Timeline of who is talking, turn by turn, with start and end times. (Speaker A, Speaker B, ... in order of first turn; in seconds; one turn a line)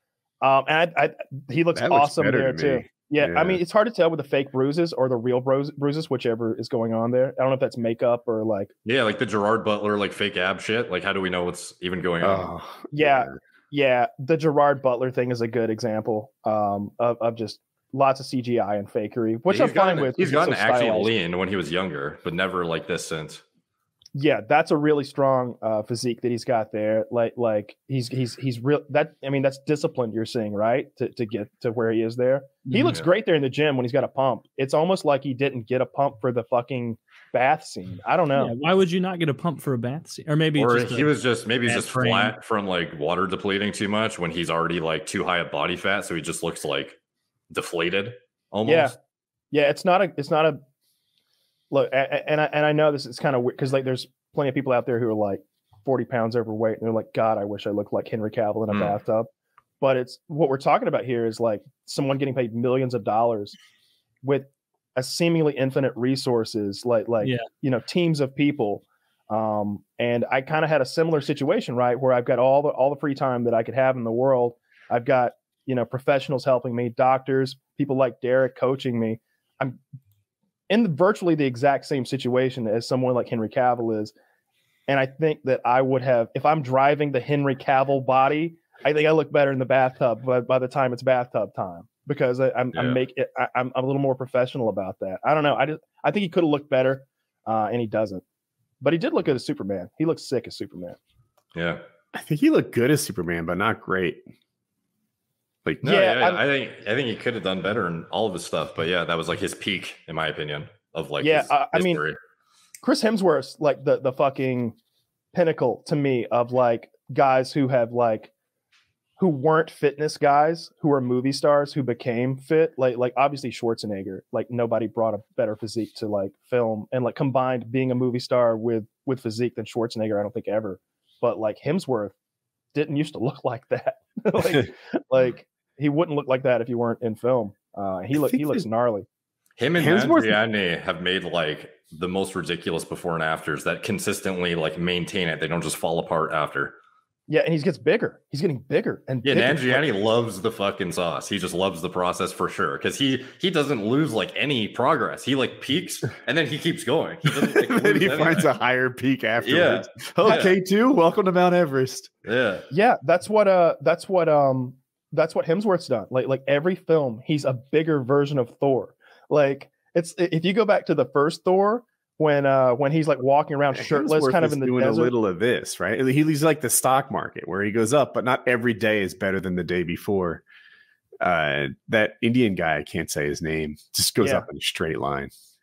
Speaker A: 0.4-8.7
Speaker B: 1.7-3.6
Speaker C: 8.8-12.5
Speaker B: 12.2-13.3
Speaker A: 12.9-21.1
Speaker C: 19.5-23.4
Speaker A: 24.1-38.5
Speaker D: 32.7-33.0
Speaker D: 38.4-42.4
Speaker C: 40.6-47.0
Speaker C: 47.5-48.9
Speaker A: 48.6-48.9
Speaker A: 49.5-50.6
Speaker A: 51.7-59.3
Speaker C: 58.7-59.0
Speaker A: 59.8-63.5
Speaker A: 64.2-79.8
Speaker D: 67.2-67.5
Speaker A: 80.7-84.1
Speaker A: 84.9-98.2
Speaker C: 92.7-93.0
Speaker A: 98.8-101.0
Speaker C: 101.5-101.8
Speaker B: 102.1-104.2
Speaker C: 105.8-112.2
Speaker A: 105.8-106.4
Speaker A: 111.2-112.0
Speaker A: 112.8-114.8
Speaker A: 115.3-118.3
Speaker A: 119.2-132.2
Speaker A: 132.7-139.1
Speaker B: 138.1-138.7
Speaker C: 139.6-146.7
Speaker B: 139.8-140.4
Speaker A: 147.3-149.8
Speaker C: 149.2-158.5
Speaker B: 157.4-162.1
Speaker C: 159.4-160.6
Speaker C: 162.2-162.6
Speaker A: 162.7-175.1
Speaker B: 173.7-180.4
Speaker B: 181.2-185.3
Speaker A: 184.2-184.5